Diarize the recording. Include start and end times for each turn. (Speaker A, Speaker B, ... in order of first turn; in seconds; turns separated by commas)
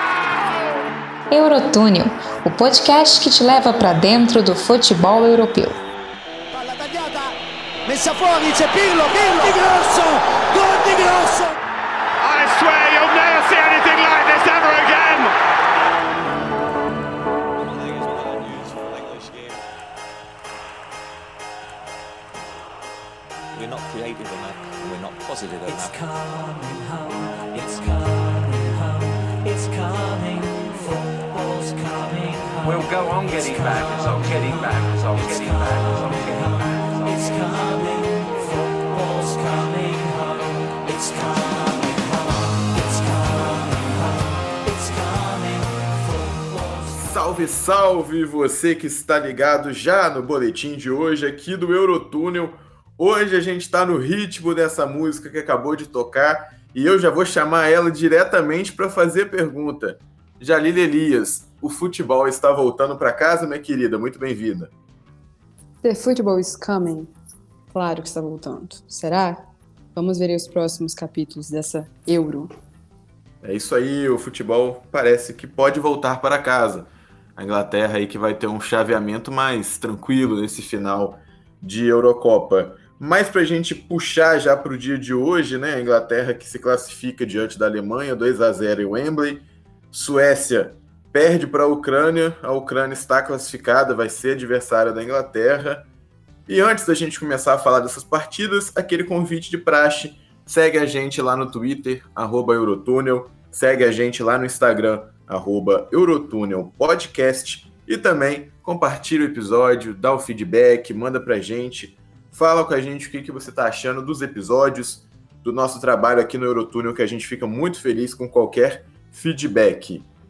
Speaker A: 1.3-5.8, Speaker B: 6.5-7.3, Speaker B: 7.8-11.5, Speaker C: 12.2-15.3, Speaker D: 17.6-19.6, Speaker D: 23.5-26.0, Speaker E: 27.9-28.7, Speaker E: 29.7-30.6, Speaker E: 31.4-32.6, Speaker C: 32.6-37.3, Speaker E: 37.6-38.1, Speaker E: 38.9-41.0, Speaker F: 46.8-64.7, Speaker G: 65.8-67.1, Speaker G: 67.7-72.5, Speaker F: 73.4-95.9, Speaker F: 96.5-120.0